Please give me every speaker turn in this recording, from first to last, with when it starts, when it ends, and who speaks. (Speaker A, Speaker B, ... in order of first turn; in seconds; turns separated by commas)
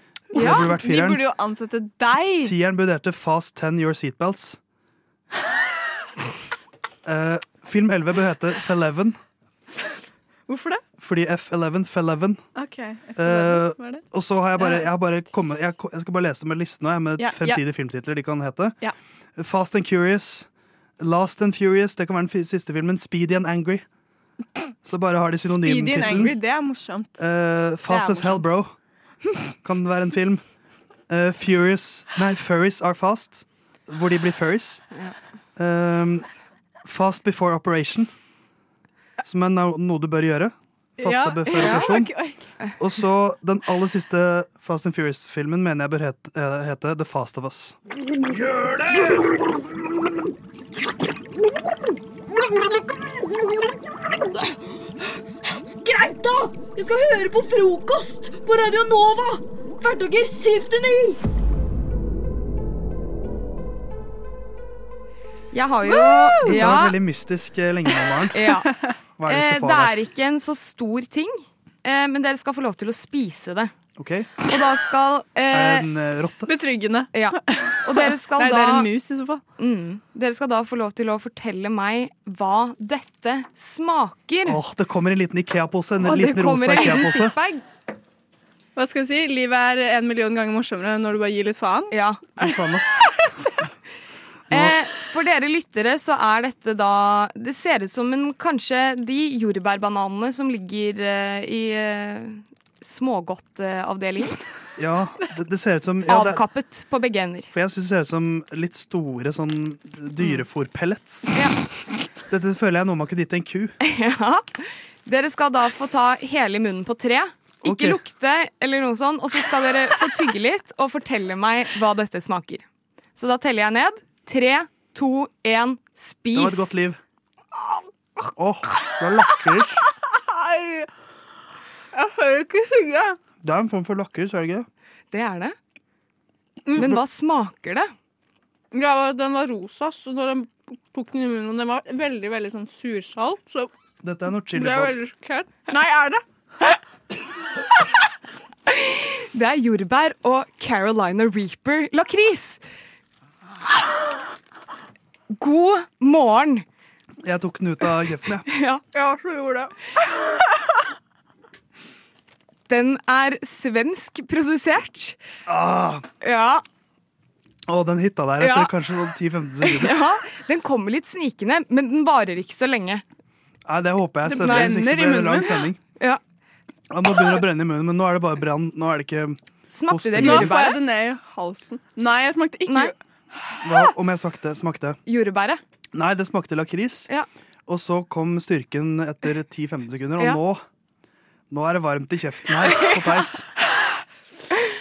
Speaker A: 0.3-1.2, Speaker B: 0.3-2.5, Speaker A: 2.4-4.6, Speaker A: 7.0-9.2, Speaker B: 10.5-10.8, Speaker A: 11.0-12.4, Speaker B: 12.5-14.0, Speaker A: 13.2-18.8, Speaker B: 14.6-14.9, Speaker B: 17.2-17.6, Speaker A: 19.4-20.5, Speaker A: 21.0-23.8, Speaker A: 24.8-26.4, Speaker B: 25.4-27.2, Speaker A: 27.2-28.7, Speaker B: 27.9-28.5, Speaker A: 29.6-30.4, Speaker A: 31.1-34.8, Speaker A: 35.6-36.3, Speaker A: 36.8-38.1, Speaker A: 39.2-42.1, Speaker B: 41.0-42.5, Speaker C: 41.6-41.9, Speaker A: 42.8-47.8, Speaker A: 48.5-49.0, Speaker D: 52.3-54.5, Speaker D: 55.8-61.2, Speaker C: 65.5-67.0, Speaker B: 65.8-66.7, Speaker A: 66.4-68.4, Speaker C: 68.3-68.7, Speaker A: 69.2-69.9, Speaker C: 69.2-73.7, Speaker A: 74.0-74.3, Speaker C: 74.5-75.9, Speaker A: 75.5-76.5, Speaker B: 76.5-79.4, Speaker C: 77.1-78.9, Speaker C: 79.6-84.6, Speaker A: 84.5-87.3, Speaker C: 86.0-87.6, Speaker B: 88.8-92.5, Speaker C: 91.9-92.3, Speaker A: 92.3-93.1, Speaker C: 94.5-104.4, Speaker A: 104.8-106.4, Speaker C: 106.0-107.5, Speaker A: 107.5-111.3, Speaker C: 110.2-110.4, Speaker A: 112.3-113.8, Speaker C: 113.8-122.6, Speaker A: 117.6-118.0, Speaker C: 123.2-126.7, Speaker A: 126.3-127.0, Speaker A: 128.3-129.8, Speaker B: 131.9-133.2, Speaker A: 133.4-134.7, Speaker C: 135.1-135.5, Speaker C: 136.7-137.9, Speaker B: 138.7-143.7, Speaker A: 144.0-145.1, Speaker B: 144.5-146.2, Speaker C: 148.7-152.6, Speaker C: 155.3-156.6, Speaker A: 157.2-158.4, Speaker C: 158.4-158.8, Speaker B: 158.9-159.7, Speaker C: 162.7-165.2, Speaker A: 165.5-166.0, Speaker C: 166.2-166.6, Speaker A: 167.7-169.9, Speaker C: 168.4-168.7, Speaker C: 169.6-173.0, Speaker A: 173.7-175.8, Speaker B: 174.2-175.7, Speaker A: 176.9-179.4, Speaker C: 179.7-180.8, Speaker A: 179.9-180.6, Speaker B: 180.2-182.9, Speaker C: 182.7-182.9, Speaker A: 183.6-185.0, Speaker C: 185.1-185.6, Speaker A: 185.9-187.1, Speaker A: 187.7-190.6, Speaker A: 191.5-193.4